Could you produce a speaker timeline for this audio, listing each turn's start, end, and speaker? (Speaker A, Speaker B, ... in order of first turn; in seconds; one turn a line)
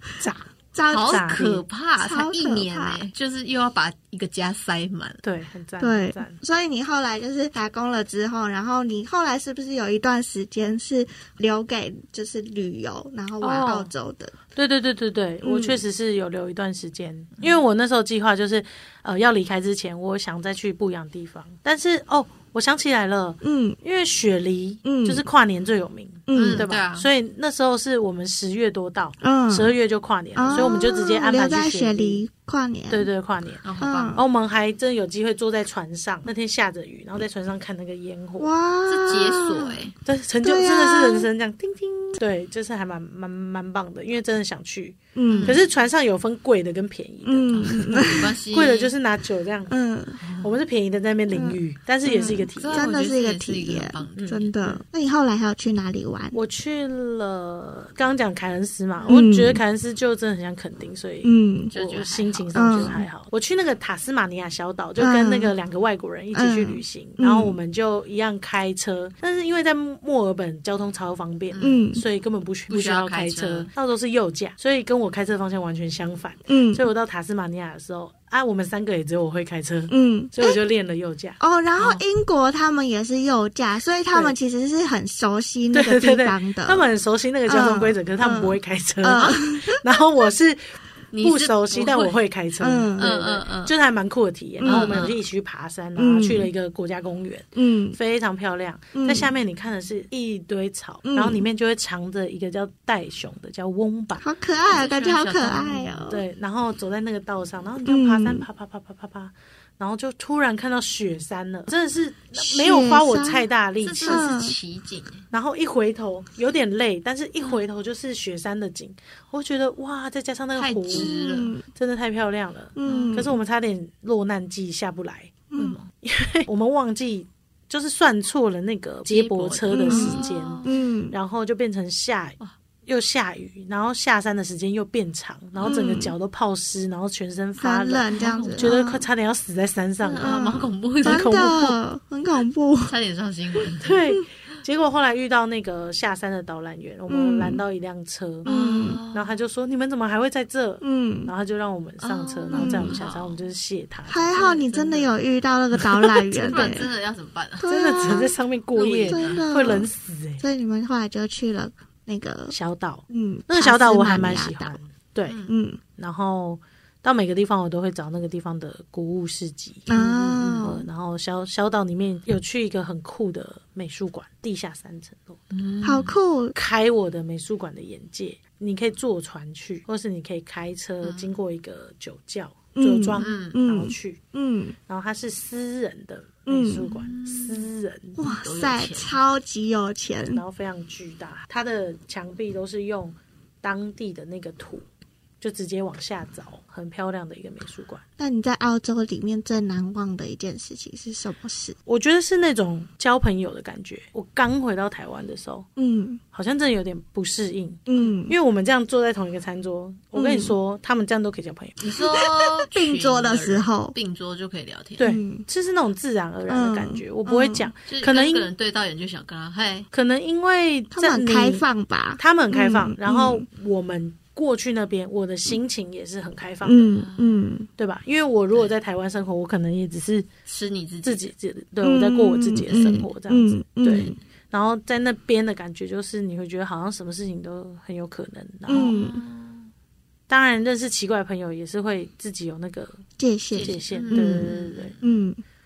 Speaker A: 0.2-0.5
Speaker B: 0.7-3.1
Speaker C: 0.9-5.2
Speaker A: 1.0-1.6
Speaker A: 5.2-6.4
Speaker B: 5.8-14.3
Speaker C: 13.4-13.8
Speaker A: 13.4-13.9
Speaker A: 14.6-32.2
Speaker B: 15.4-15.8
Speaker B: 23.4-23.8
Speaker B: 24.8-25.2
Speaker B: 26.3-26.7
Speaker C: 26.3-27.1
Speaker B: 29.2-29.7
Speaker B: 30.3-33.1
Speaker A: 32.9-38.5
Speaker C: 33.6-34.2
Speaker B: 33.8-34.2
Speaker B: 38.4-39.9
Speaker C: 38.9-39.9
Speaker A: 40.0-49.7
Speaker B: 40.4-41.3
Speaker B: 45.1-45.6
Speaker C: 45.3-45.6
Speaker B: 47.2-48.4
Speaker C: 47.5-48.9
Speaker B: 49.7-50.2
Speaker C: 50.2-50.5
Speaker A: 50.4-52.9
Speaker B: 51.3-56.4
Speaker C: 52.5-54.8
Speaker A: 54.1-54.7
Speaker A: 56.3-82.0
Speaker B: 59.0-59.6
Speaker B: 61.2-61.7
Speaker C: 61.7-63.0
Speaker B: 62.5-63.0
Speaker B: 65.0-65.5
Speaker B: 66.3-67.5
Speaker C: 71.5-71.9
Speaker B: 71.6-72.0
Speaker C: 72.7-73.7
Speaker B: 76.5-76.8
Speaker B: 79.9-80.5
Speaker B: 81.4-86.8
Speaker A: 85.7-104.2
Speaker B: 87.5-89.8
Speaker C: 91.1-92.2
Speaker B: 92.6-93.1
Speaker C: 93.0-93.7
Speaker B: 94.6-95.0
Speaker C: 94.7-95.2
Speaker B: 96.0-96.5
Speaker B: 97.5-98.0
Speaker B: 98.9-99.3
Speaker B: 101.0-101.4
Speaker B: 104.2-106.2
Speaker C: 104.7-106.1
Speaker A: 106.1-114.3
Speaker B: 107.8-108.5
Speaker B: 112.3-113.5
Speaker C: 113.8-115.2
Speaker B: 114.0-114.5
Speaker A: 115.3-121.1
Speaker C: 120.5-121.6
Speaker B: 120.9-121.7
Speaker A: 121.7-125.4
Speaker B: 122.8-123.3
Speaker C: 122.8-123.2
Speaker B: 125.5-125.8
Speaker C: 125.5-125.9
Speaker A: 126.0-140.4
Speaker C: 129.1-130.8
Speaker B: 129.7-131.2
Speaker C: 135.6-136.1
Speaker B: 135.6-136.1
Speaker B: 137.6-139.0
Speaker C: 138.1-138.8
Speaker C: 140.0-141.3
Speaker B: 140.2-142.9
Speaker A: 141.0-141.8
Speaker C: 142.8-144.0
Speaker A: 143.8-148.5
Speaker B: 147.1-147.6
Speaker B: 148.4-149.0
Speaker C: 148.4-149.4
Speaker A: 149.1-154.3
Speaker B: 150.8-151.3
Speaker C: 152.0-153.5
Speaker B: 152.5-153.0
Speaker B: 154.1-156.9
Speaker C: 154.3-155.1
Speaker C: 156.0-159.8
Speaker B: 157.6-158.3
Speaker A: 157.7-160.4
Speaker B: 159.1-162.6
Speaker A: 162.5-165.4
Speaker B: 163.1-164.8
Speaker C: 165.2-165.5
Speaker B: 165.5-165.8
Speaker A: 166.0-175.5
Speaker B: 169.9-170.9
Speaker C: 169.9-170.6
Speaker C: 175.5-176.2
Speaker B: 175.8-176.6
Speaker A: 176.5-184.2
Speaker C: 181.0-181.4
Speaker B: 182.7-184.8
Speaker C: 183.2-183.6
Speaker A: 184.9-188.2
Speaker B: 186.5-186.9
Speaker C: 186.8-189.2
Speaker B: 188.2-190.4
Speaker A: 190.3-194.8
Speaker A: 195.4-198.0
Speaker B: 198.2-201.8
Speaker A: 201.8-205.7
Speaker B: 205.8-206.2
Speaker A: 206.3-211.8
Speaker B: 207.9-208.3
Speaker B: 210.1-210.5
Speaker C: 211.8-215.1
Speaker B: 211.9-213.9
Speaker A: 215.0-218.5
Speaker B: 215.0-215.4
Speaker B: 216.5-217.7
Speaker C: 217.9-219.9
Speaker A: 219.9-221.6
Speaker B: 220.9-223.4
Speaker A: 222.2-226.9
Speaker B: 226.6-227.7
Speaker C: 226.9-227.4
Speaker A: 227.8-230.3
Speaker C: 230.4-231.3
Speaker A: 231.0-239.0
Speaker B: 231.8-234.2
Speaker B: 238.7-239.2
Speaker C: 238.7-239.7
Speaker A: 240.3-243.0
Speaker B: 243.2-244.5
Speaker C: 243.5-245.0
Speaker A: 243.6-244.9
Speaker B: 245.0-245.4